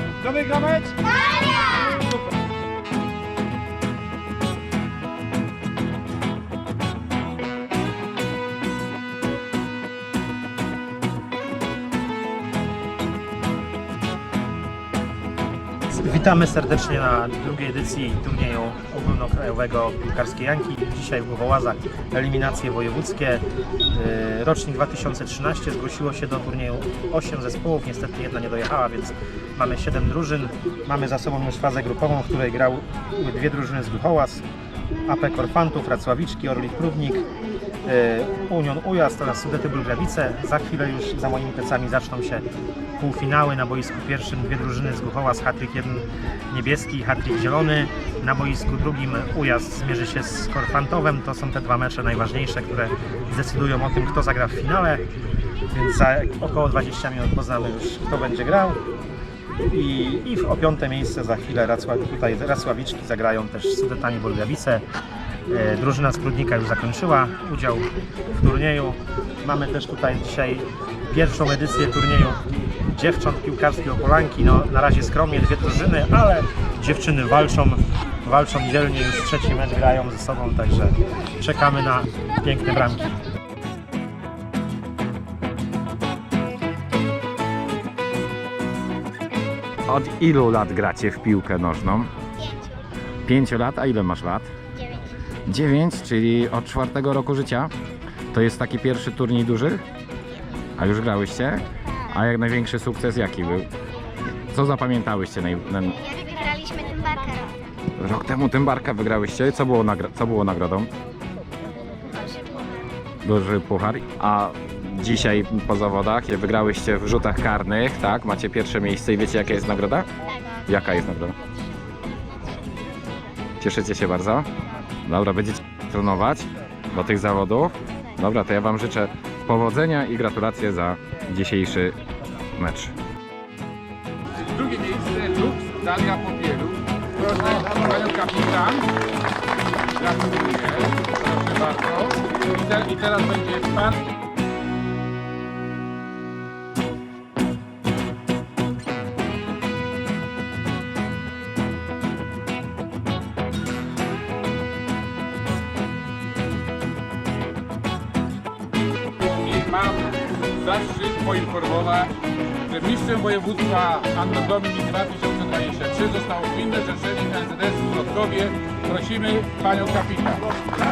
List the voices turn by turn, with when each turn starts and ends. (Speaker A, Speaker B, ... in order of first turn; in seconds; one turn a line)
Speaker A: 0.3-1.0
Speaker B: 1.2-1.9
Speaker C: 15.9-34.4
Speaker C: 35.0-37.3
Speaker C: 37.8-42.4
Speaker C: 43.0-55.0
Speaker C: 55.6-58.8
Speaker C: 59.6-64.8
Speaker C: 65.5-83.2
Speaker D: 89.9-92.1
Speaker D: 93.2-94.5
Speaker D: 95.4-97.7
Speaker D: 98.3-99.8
Speaker D: 100.8-103.7
Speaker D: 104.2-106.0
Speaker B: 106.1-107.6
Speaker D: 108.0-110.9
Speaker B: 112.0-112.5
Speaker D: 113.2-121.3
Speaker D: 123.6-124.5
Speaker D: 125.0-132.0
Speaker D: 132.6-132.9
Speaker A: 134.4-138.9
Speaker A: 139.9-143.9
Speaker A: 159.2-170.5